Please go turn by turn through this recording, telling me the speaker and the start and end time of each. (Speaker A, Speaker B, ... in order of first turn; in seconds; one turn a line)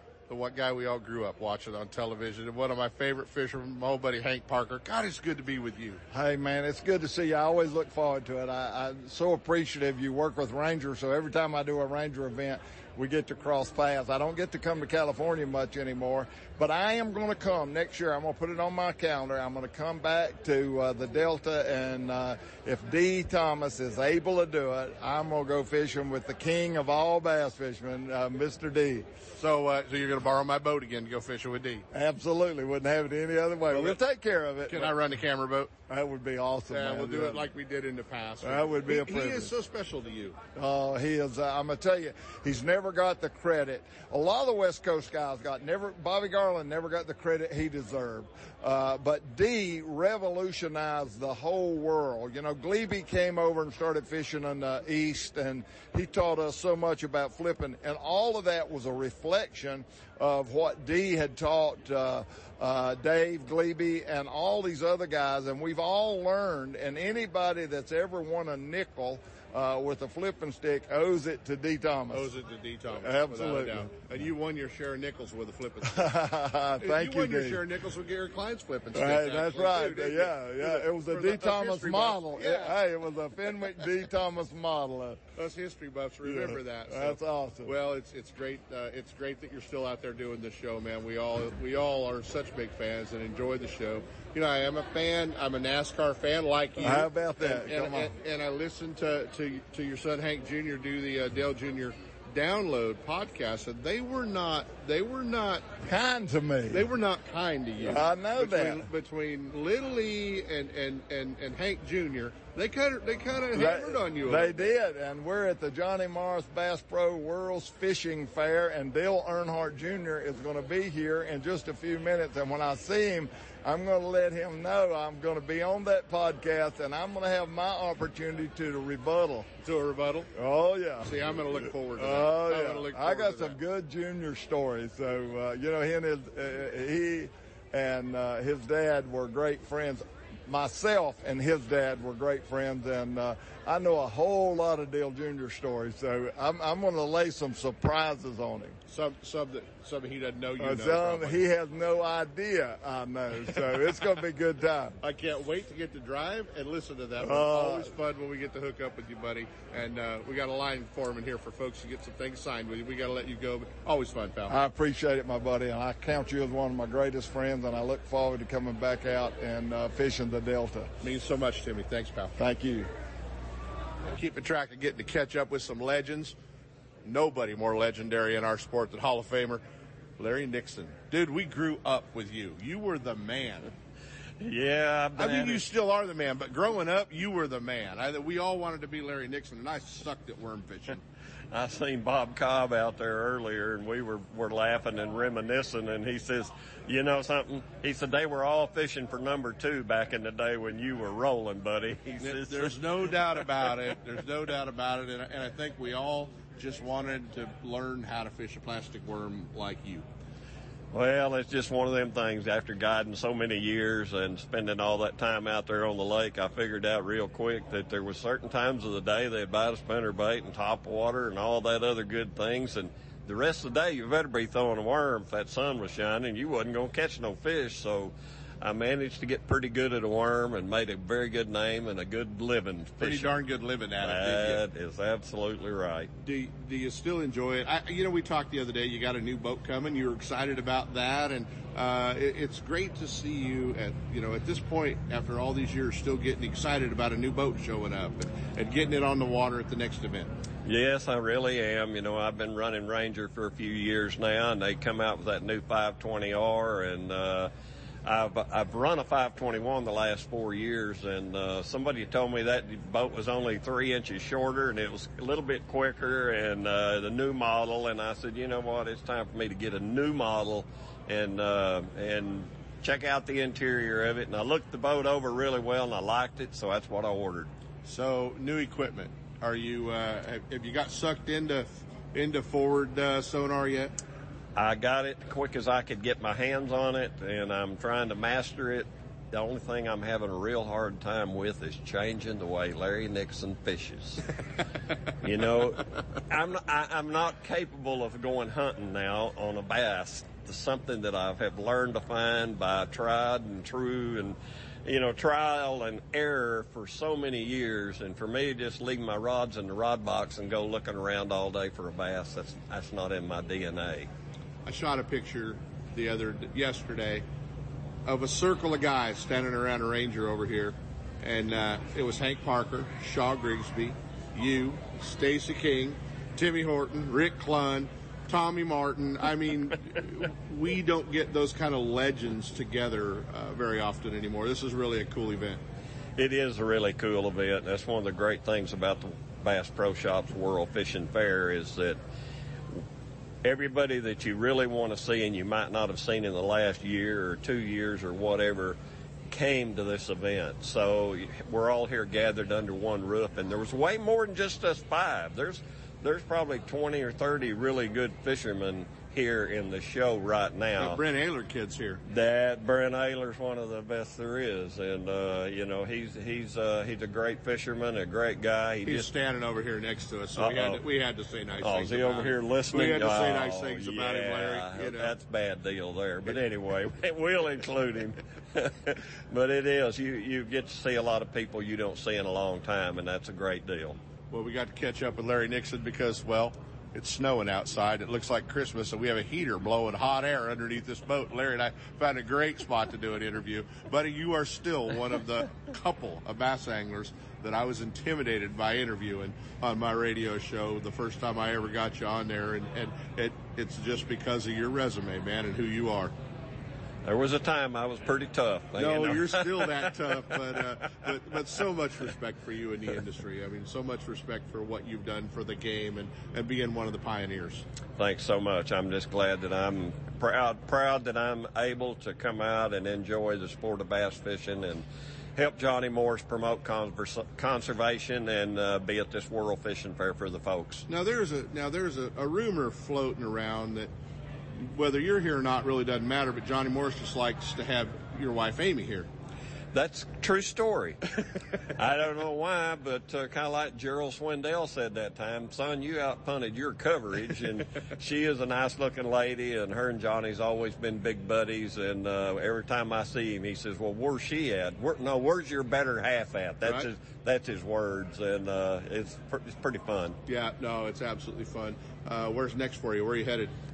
Speaker A: 0.3-6.0
Speaker B: 6.1-29.1
Speaker A: 29.4-31.8
Speaker B: 31.9-35.0
Speaker A: 33.7-34.0
Speaker A: 34.6-35.7
Speaker B: 35.9-37.5
Speaker A: 36.7-40.4
Speaker B: 38.4-39.5
Speaker B: 40.5-72.3
Speaker A: 72.1-76.1
Speaker B: 72.9-74.0
Speaker B: 75.8-77.6
Speaker A: 76.8-82.8
Speaker B: 78.9-85.2
Speaker A: 85.3-105.7
Speaker B: 86.2-87.7
Speaker B: 96.8-98.1
Speaker B: 105.8-106.9
Speaker A: 106.7-114.7
Speaker B: 107.8-108.9
Speaker B: 113.5-129.5
Speaker A: 129.6-130.3
Speaker B: 130.3-148.8
Speaker A: 131.0-133.6
Speaker A: 148.9-151.4
Speaker B: 150.6-154.9
Speaker A: 153.5-154.0
Speaker A: 155.0-164.6
Speaker B: 157.2-157.9
Speaker B: 164.5-170.9
Speaker A: 171.0-172.4
Speaker B: 172.4-172.9
Speaker A: 174.1-176.3
Speaker A: 177.0-179.6
Speaker A: 180.2-183.7
Speaker C: 184.4-185.6
Speaker A: 185.2-191.0
Speaker C: 191.5-202.7
Speaker A: 202.2-210.0
Speaker C: 210.9-233.3
Speaker A: 233.0-234.6
Speaker C: 234.0-236.1
Speaker A: 236.2-250.3
Speaker C: 250.7-257.5
Speaker C: 258.1-277.5
Speaker A: 277.9-283.9
Speaker C: 284.6-294.2
Speaker C: 295.2-314.1
Speaker A: 314.6-317.2
Speaker A: 318.1-335.6
Speaker C: 336.2-342.0
Speaker C: 343.4-348.8
Speaker C: 349.3-361.0
Speaker A: 360.8-362.0
Speaker C: 362.1-369.1
Speaker A: 368.8-375.1
Speaker C: 370.4-370.8
Speaker C: 371.6-384.0
Speaker A: 384.3-406.1
Speaker C: 407.0-411.4
Speaker A: 408.7-417.6
Speaker C: 418.0-424.8
Speaker C: 425.4-430.8
Speaker A: 430.9-433.9
Speaker A: 434.5-439.1
Speaker C: 439.7-441.0
Speaker C: 441.8-460.2
Speaker A: 456.6-456.9
Speaker A: 460.3-463.5